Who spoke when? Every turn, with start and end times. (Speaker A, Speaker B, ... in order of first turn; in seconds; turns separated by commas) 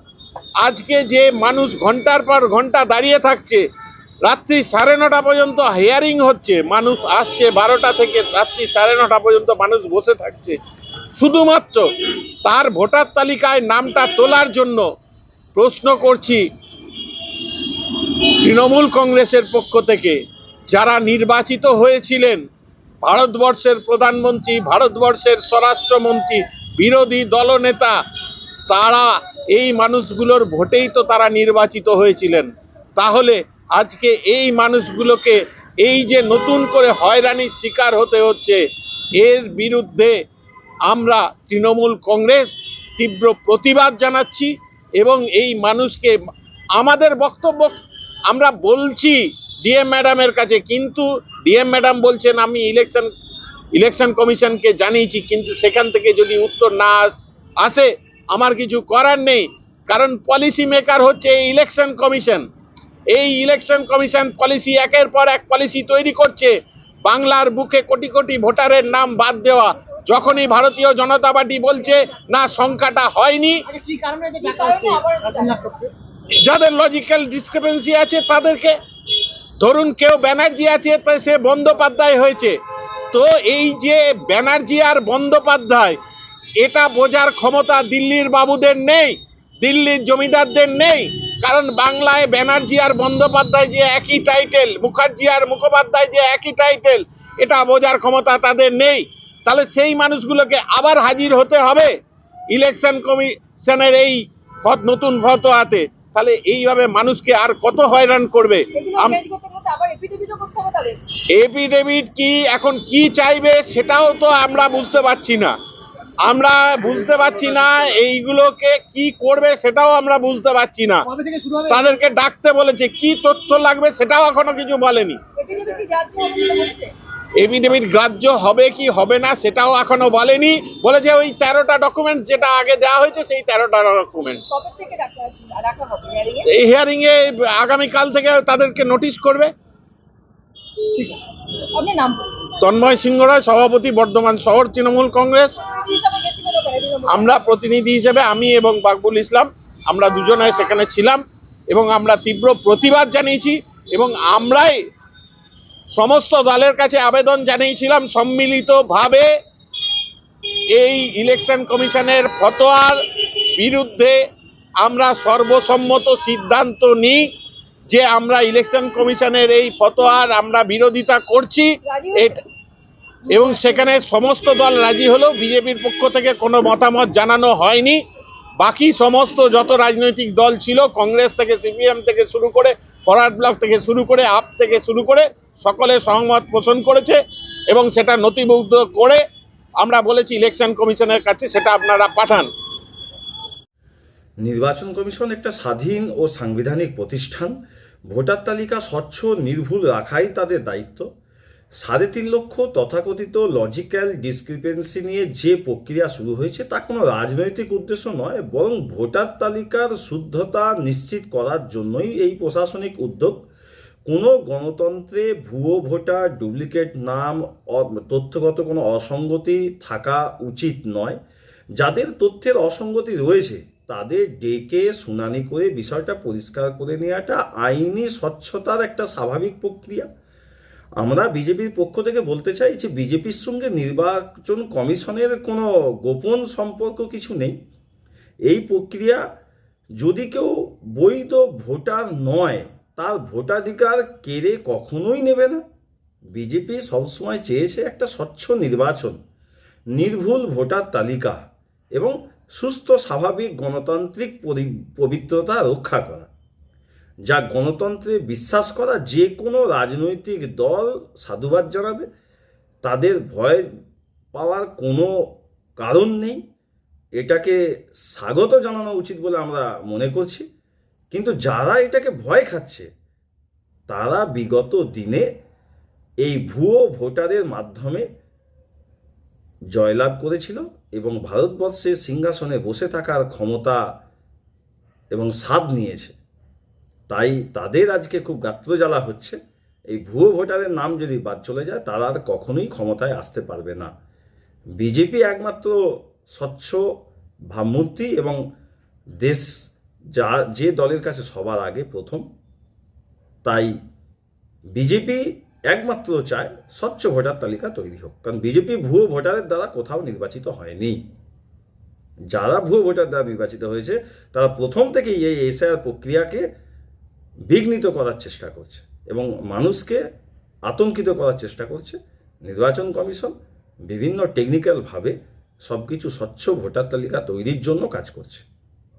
Speaker A: 0.6-3.7, Speaker A: 4.2-10.6, Speaker A: 11.2-11.9, Speaker A: 12.4-14.8, Speaker A: 15.5-16.4, Speaker A: 17.3-22.4, Speaker A: 23.0-28.0, Speaker A: 28.7-38.6, Speaker A: 39.1-40.2, Speaker A: 40.9-46.1, Speaker A: 46.8-47.8, Speaker A: 48.3-53.1, Speaker A: 53.7-62.5, Speaker A: 63.1-73.6, Speaker B: 73.8-75.8, Speaker A: 76.4-78.7, Speaker A: 79.6-82.5, Speaker A: 83.1-86.0, Speaker A: 86.6-101.9, Speaker A: 102.5-109.2, Speaker B: 108.7-111.0, Speaker A: 111.3-115.5, Speaker A: 116.2-121.0, Speaker A: 121.7-125.2, Speaker B: 125.3-126.9, Speaker A: 127.4-134.5, Speaker B: 134.5-136.5, Speaker A: 136.4-139.5, Speaker B: 140.9-141.2, Speaker B: 141.7-142.5, Speaker A: 142.6-145.5, Speaker B: 145.7-147.3, Speaker A: 147.1-154.8, Speaker A: 155.9-159.3, Speaker A: 160.7-163.0, Speaker A: 163.6-164.2, Speaker A: 164.8-167.3, Speaker A: 167.9-172.4, Speaker B: 171.8-172.4, Speaker B: 173.3-173.9, Speaker A: 173.3-178.0, Speaker A: 178.6-189.2, Speaker A: 189.8-192.5, Speaker C: 194.4-197.5, Speaker C: 198.1-201.1, Speaker C: 201.8-213.4, Speaker C: 214.1-221.2, Speaker C: 221.8-230.1, Speaker C: 231.0-237.6, Speaker C: 238.5-239.2, Speaker C: 240.0-245.6, Speaker C: 246.3-249.2, Speaker C: 249.9-251.4, Speaker C: 251.9-256.3, Speaker C: 257.3-262.1, Speaker C: 262.8-263.6, Speaker C: 264.3-266.4, Speaker C: 267.2-270.4, Speaker C: 271.1-272.9, Speaker C: 273.9-275.3, Speaker C: 276.2-278.1, Speaker C: 279.7-283.9, Speaker C: 285.1-286.2, Speaker C: 287.1-289.4, Speaker C: 289.9-293.9, Speaker C: 294.8-296.9, Speaker C: 297.5-298.4, Speaker C: 299.2-302.3, Speaker C: 303.4-303.7, Speaker C: 304.7-311.0, Speaker C: 312.3-316.4, Speaker C: 317.5-320.0, Speaker C: 320.6-323.3, Speaker C: 323.9-325.1, Speaker C: 325.7-328.4